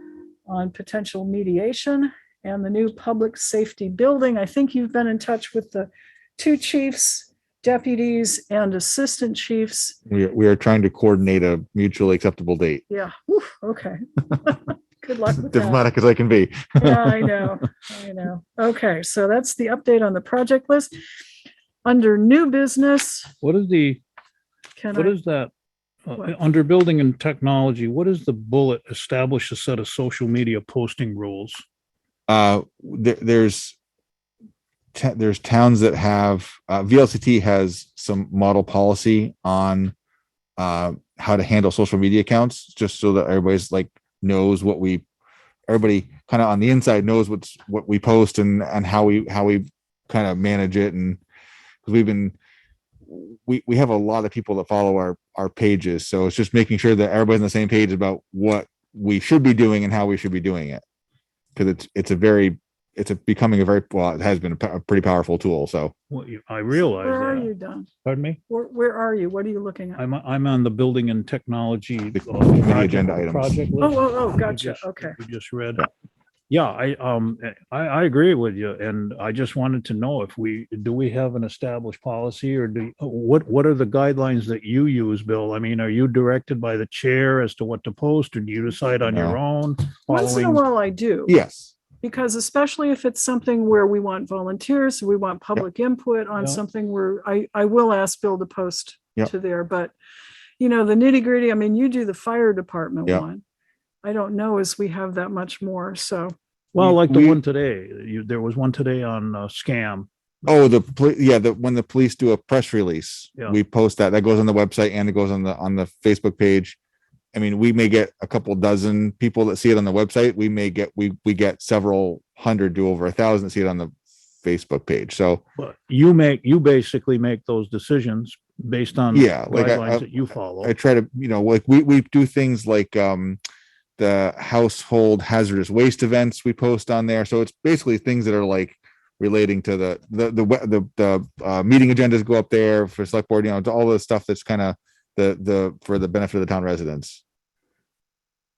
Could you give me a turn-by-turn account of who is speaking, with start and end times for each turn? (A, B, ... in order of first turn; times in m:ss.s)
0:00.4-0:10.0 A
0:10.1-0:12.8 B
0:12.9-0:15.8 A
0:15.4-0:17.5 B
0:16.8-0:20.9 A
0:21.8-0:23.3 A
0:23.4-0:24.0 C
0:24.8-0:25.2 A
0:24.9-0:25.5 C
0:26.0-0:31.6 C
0:32.3-0:33.8 B
0:34.9-0:39.9 B
0:40.6-0:45.0 B
0:45.7-0:51.2 B
0:51.8-0:52.4 B
0:53.0-1:00.8 B
1:01.6-1:05.9 B
1:06.1-1:07.5 C
1:06.8-1:07.9 A
1:08.0-1:08.4 C
1:08.5-1:10.0 A
1:10.0-1:15.9 C
1:12.1-1:13.5 B
1:13.8-1:15.2 A
1:16.5-1:30.6 C
1:29.0-1:29.4 B
1:30.1-1:31.4 A
1:31.3-1:31.7 B
1:32.0-1:39.9 A
1:40.6-1:43.4 A
1:44.0-1:46.3 A
1:46.7-1:50.1 C
1:46.8-1:47.4 B
1:50.4-1:56.8 B
1:57.3-2:05.4 B
2:05.6-2:10.7 C
2:09.1-2:13.4 B
2:14.0-2:27.2 B